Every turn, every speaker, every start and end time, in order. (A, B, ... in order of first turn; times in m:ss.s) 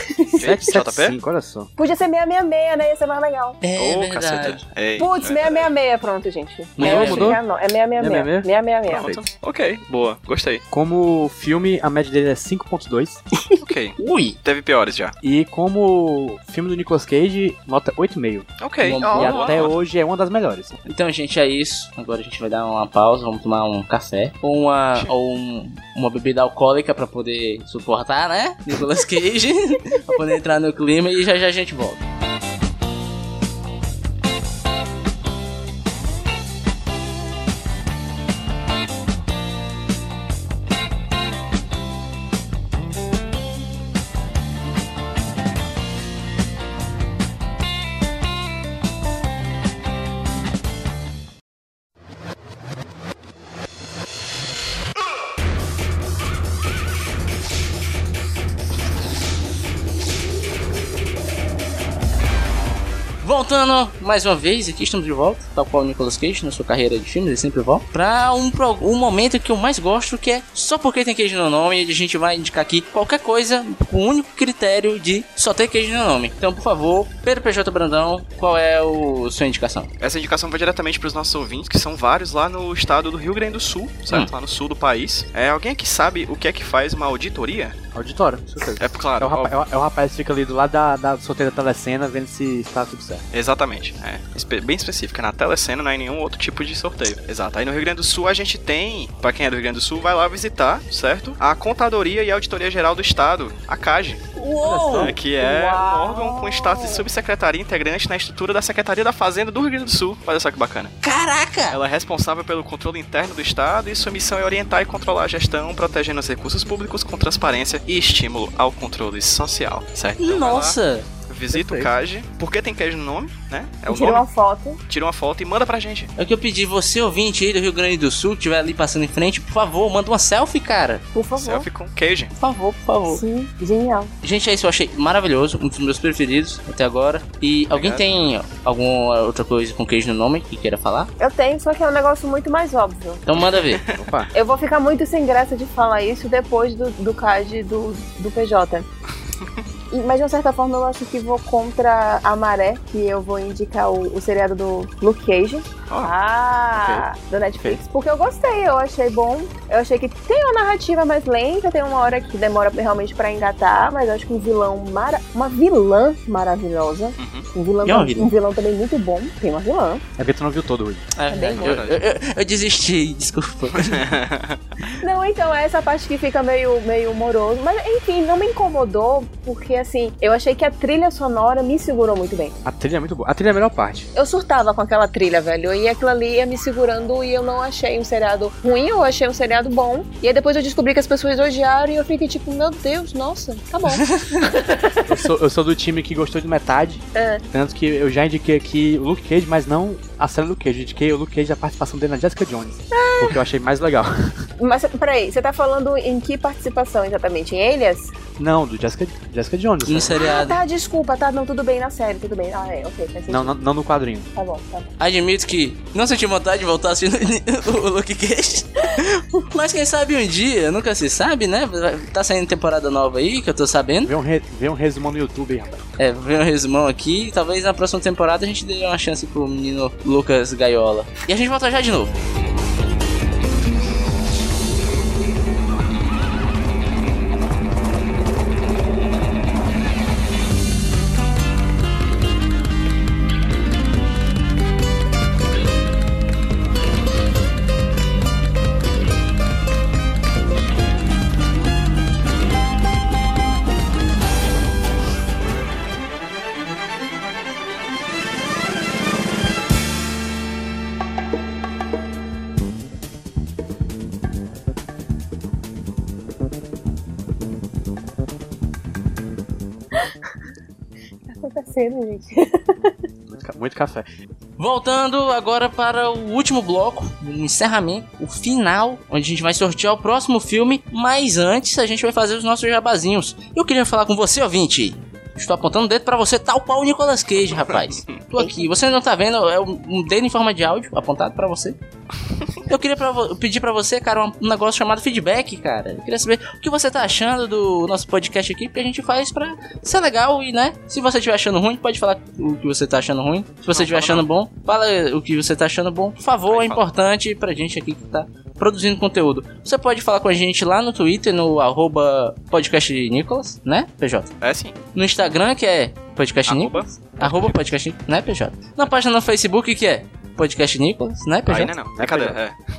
0:00.1-0:00.6 A
0:00.4-0:01.2 B
0:00.4-0:01.7 C
0:01.8-0:03.6 A
0:03.6-0:04.6 D
0:03.8-0:05.7 B
0:05.0-0:09.1 A
0:06.8-0:07.4 C
0:06.8-0:07.4 D
0:08.0-0:09.2 C
0:08.9-0:10.6 B
0:10.7-0:13.2 C
0:13.6-0:15.1 B
0:14.0-0:14.4 D
0:15.2-0:18.5 C
0:18.6-0:19.7 B
0:18.8-0:19.5 D
0:19.0-0:20.8 C
0:20.8-0:32.0 D
1:03.2-1:19.9 D
1:20.0-1:27.8 B
1:27.9-1:33.2 C
1:28.8-1:29.5 B
1:33.3-1:44.2 B
1:44.3-1:45.2 D
1:44.6-1:45.2 C
1:44.9-1:50.9 B
1:45.4-1:47.0 A
1:51.0-1:51.8 D
1:51.7-2:00.8 B
2:00.2-2:01.1 D
2:01.3-2:04.2 B
2:01.5-2:01.9 C
2:03.9-2:04.8 A
2:04.9-2:06.1 B
2:06.2-2:11.0 D
2:11.1-2:11.7 A
2:11.4-2:12.3 B
2:12.4-2:13.2 D
2:13.1-2:14.1 A
2:14.2-2:21.1 D
2:17.7-2:18.1 B
2:21.2-2:23.2 A
2:23.2-2:23.8 D
2:23.9-2:24.3 C
2:24.3-2:28.8 A
2:29.9-2:50.0 A
2:36.7-2:37.0 C
2:47.2-2:47.4 B
2:47.8-2:48.3 D
2:50.2-2:51.1 C
2:51.1-2:54.1 D
2:51.3-2:51.8 A
2:51.6-2:52.0 B
2:53.8-2:54.6 B
2:55.0-3:02.6 A
3:02.6-3:04.1 C
3:04.1-3:15.2 A
3:15.1-3:24.4 C
3:17.1-3:17.4 A
3:22.9-3:23.4 A
3:24.6-3:28.1 A
3:28.4-3:30.1 C
3:29.8-3:30.6 D
3:30.2-3:33.6 A
3:33.3-3:34.3 C
3:34.3-3:34.9 A
3:35.0-3:44.1 D
3:44.0-3:45.8 C
3:46.0-3:52.2 D
4:31.3-4:33.0 A
4:33.3-4:34.0 C
4:34.6-4:51.8 D
4:52.6-5:14.3 D
5:03.7-5:04.2 B
5:06.5-5:06.8 B
5:14.4-5:14.8 B
5:14.9-5:21.7 D
5:16.5-5:17.6 B
5:21.5-5:22.6 B
5:22.0-5:22.4 C